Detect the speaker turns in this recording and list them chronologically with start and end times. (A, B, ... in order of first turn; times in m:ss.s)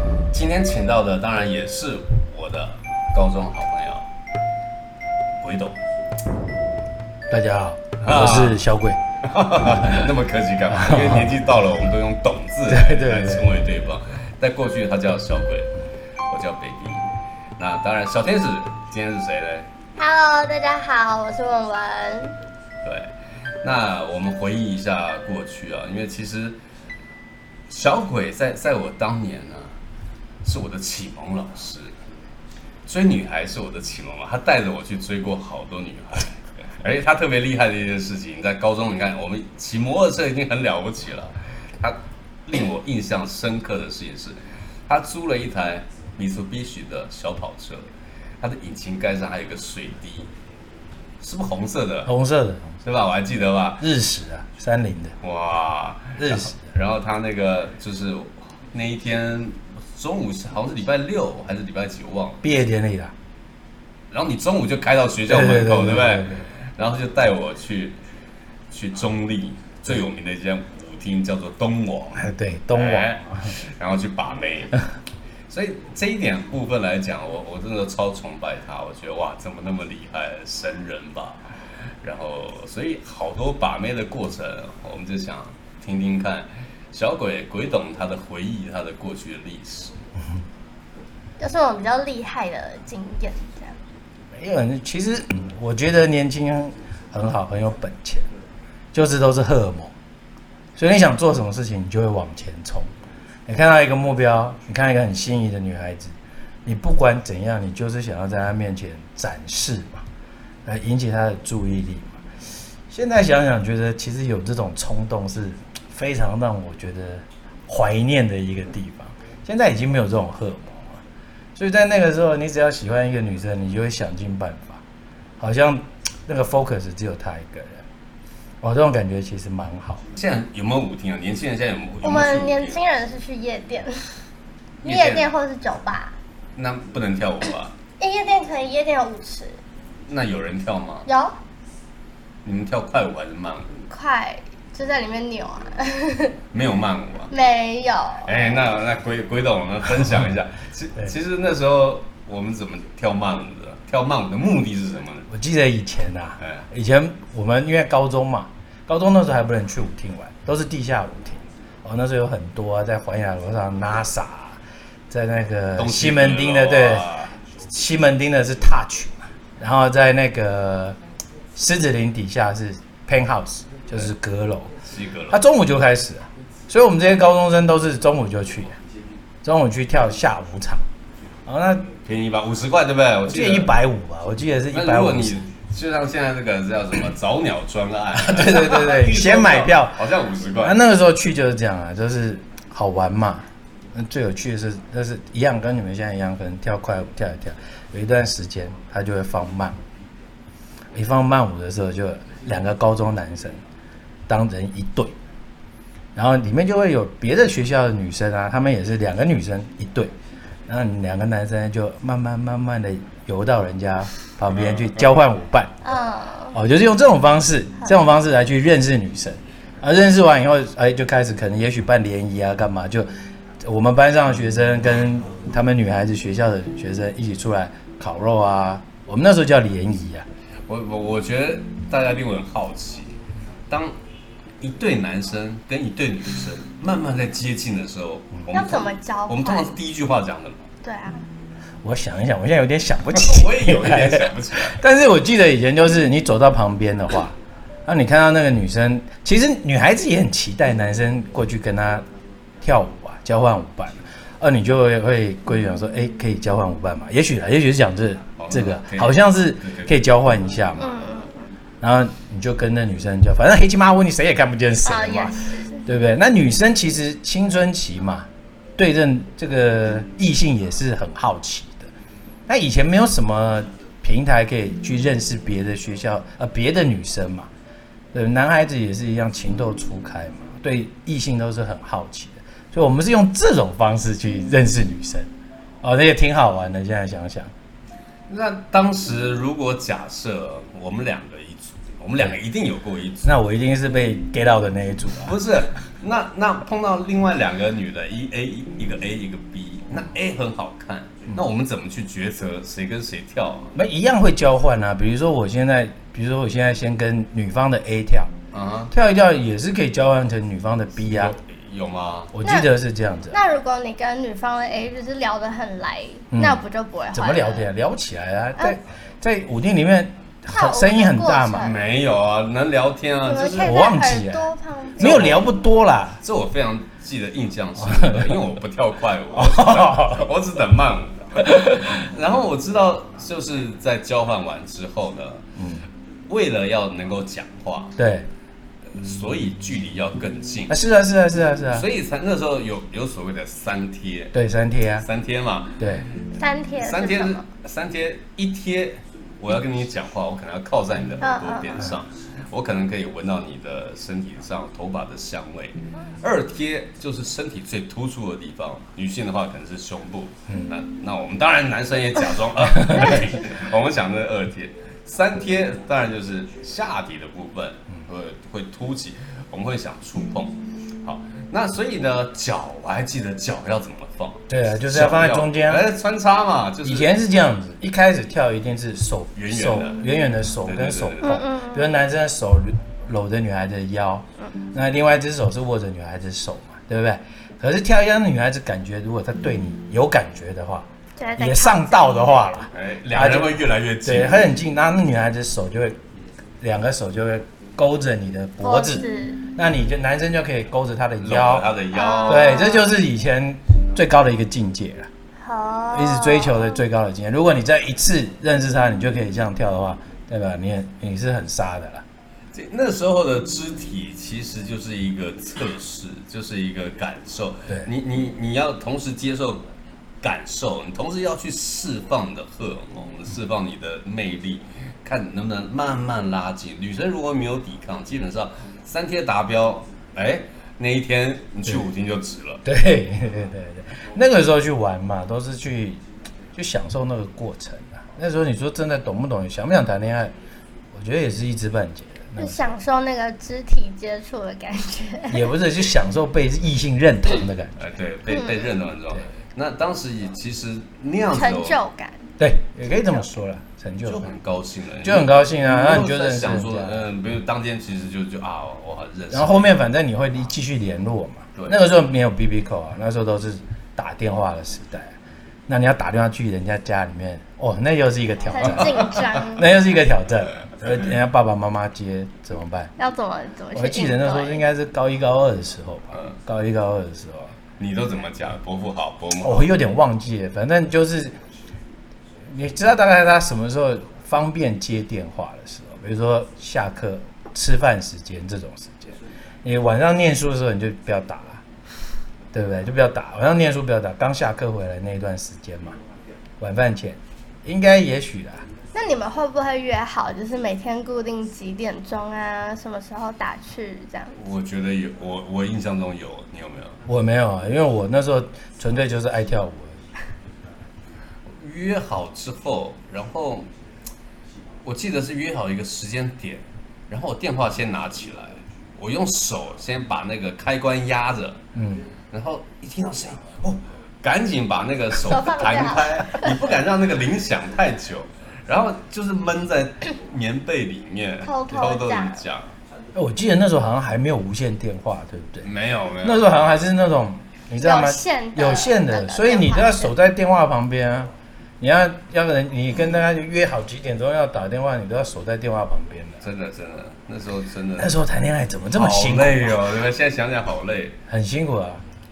0:00.3-0:04.1 A
0:05.4-0:05.8 A
0:07.3-0:09.0 B
0:08.0-0:08.6 A
0:09.2-0:15.7 A
0:09.6-0:10.1 B
0:10.7-0:11.4 B
0:12.7-0:13.6 B
0:16.3-0:19.7 A
0:20.0-0:22.4 C
0:22.8-0:23.1 A
0:23.6-0:26.6 A
0:27.7-0:29.7 A
0:30.4-0:32.0 A
0:32.9-0:50.3 A
0:51.2-0:52.1 A
0:52.1-0:52.8 B
0:52.8-0:53.9 A
0:53.8-0:55.2 B
0:55.2-1:02.4 A
0:56.2-0:56.6 B
1:02.4-1:03.1 B
1:04.1-1:08.0 A
1:05.3-1:06.5 B
1:08.7-1:14.8 A
1:12.2-1:13.6 B
1:15.5-1:30.0 A
1:31.4-1:33.8 C
1:34.3-1:38.3 B
1:38.9-1:39.9 B
1:40.8-1:42.9 B
1:43.5-1:50.0 B
1:50.6-1:52.2 B
1:52.9-2:01.0 B
2:01.6-2:04.8 B
2:05.4-2:07.8 B
2:08.6-2:10.0 B
2:10.1-2:12.8 A
2:12.0-2:14.2 C
2:14.8-2:15.3 A
2:14.8-2:16.2 C
2:16.6-2:17.8 A
2:18.0-2:19.6 C
2:20.1-2:21.1 A
2:21.0-2:21.4 C
2:22.4-2:23.8 A
2:23.9-2:26.4 C
2:26.5-2:27.3 A
2:27.3-2:28.6 C
2:28.2-2:35.3 A
2:35.3-2:44.6 B
2:36.4-2:36.7 A
2:45.1-2:47.1 B
2:45.8-2:47.4 A
2:47.6-2:51.0 B
2:51.6-2:54.7 B
2:54.8-2:55.4 A
2:55.3-2:58.8 B
2:59.4-3:00.8 B
3:01.5-3:01.9 B
3:02.0-3:03.8 A
3:03.3-3:05.4 B
3:04.7-3:10.8 A
3:08.1-3:10.0 B
3:10.6-3:19.8 B
3:20.9-3:23.6 B
3:24.3-3:25.1 B
3:26.2-3:30.1 B
3:30.7-3:35.7 B
3:35.8-3:36.6 C
3:36.5-3:43.1 B
3:43.6-3:50.3 B
3:50.7-3:53.2 A
3:53.7-3:54.0 A
3:54.6-4:00.6 A
3:58.5-3:59.7 C
4:00.8-4:01.3 C
4:01.8-4:12.0 B
4:03.1-4:04.8 A
4:12.6-4:21.0 B
4:18.4-4:20.0 A
4:20.8-4:21.5 C
4:21.8-4:31.9 B
4:24.8-4:25.8 C
4:32.5-4:37.5 B
4:38.1-4:45.3 B
4:45.8-4:47.5 B
4:48.3-4:53.4 A
4:53.2-4:55.4 B
4:55.2-5:03.8 A
5:03.8-5:08.3 B
5:08.5-5:08.9 A
5:08.9-5:11.4 B
5:11.1-5:12.3 A
5:12.3-5:13.4 B
5:12.4-5:12.7 C
5:13.3-5:17.7 C
5:16.3-5:21.8 B
5:20.5-5:21.8 C
5:21.6-5:23.8 A
5:23.2-5:25.2 C
5:23.6-5:26.2 B
5:25.0-5:25.5 A
5:26.2-5:35.4 A
5:27.8-5:28.5 B
5:29.4-5:30.3 B
5:35.6-5:35.9 B
5:36.3-5:38.0 A
5:38.0-5:38.3 B
5:39.0-5:40.8 A
5:40.7-5:41.9 B
5:41.7-5:44.4 A
5:44.3-5:45.1 B
5:45.0-5:45.8 A
5:45.8-5:46.1 B
5:46.3-5:47.5 C
5:46.8-6:17.1 A
5:51.2-5:51.8 C
6:14.5-6:15.9 B
6:16.8-6:30.9 B
6:19.4-6:20.1 A
6:20.6-6:21.4 A
6:21.2-6:22.0 C
6:31.2-6:32.4 C
6:31.4-6:36.0 B
6:32.7-6:34.6 A
6:36.6-6:45.1 B
6:38.6-6:39.4 C
6:41.2-6:42.7 A
6:41.9-6:43.0 C
6:45.4-6:46.8 C
6:45.9-6:52.0 B
6:52.5-6:59.6 A
7:00.2-7:12.6 A
7:12.6-7:16.0 B
7:16.5-7:20.3 B
7:20.9-7:22.7 B
7:22.4-7:25.5 C
7:25.3-7:27.8 B
7:27.8-7:31.8 A
7:28.3-7:28.7 C
7:31.3-7:32.3 C
7:32.4-7:34.3 B
7:34.0-7:39.8 A
7:35.0-7:37.0 B
7:39.3-7:45.1 B
7:45.7-7:52.9 B
7:48.5-7:49.7 C
7:53.0-7:54.7 C
7:53.7-7:57.6 B
7:57.8-7:59.7 A
7:59.4-8:01.4 B
8:02.5-8:11.6 B
8:12.5-8:16.0 B
8:16.6-8:18.7 B
8:18.9-8:24.4 C
8:24.4-8:27.0 A
8:27.1-8:30.0 B
8:31.5-8:33.7 A
8:34.8-8:41.6 A
8:41.7-8:42.1 B
8:42.3-8:52.8 A
8:45.2-8:46.5 C
8:51.4-8:52.4 C
8:53.2-8:55.7 B
8:55.6-8:56.8 A
8:56.2-9:06.4 B
8:57.8-9:00.1 C
9:06.4-9:08.2 A
9:08.0-9:09.9 B
9:08.9-9:11.2 A
9:11.3-9:12.0 B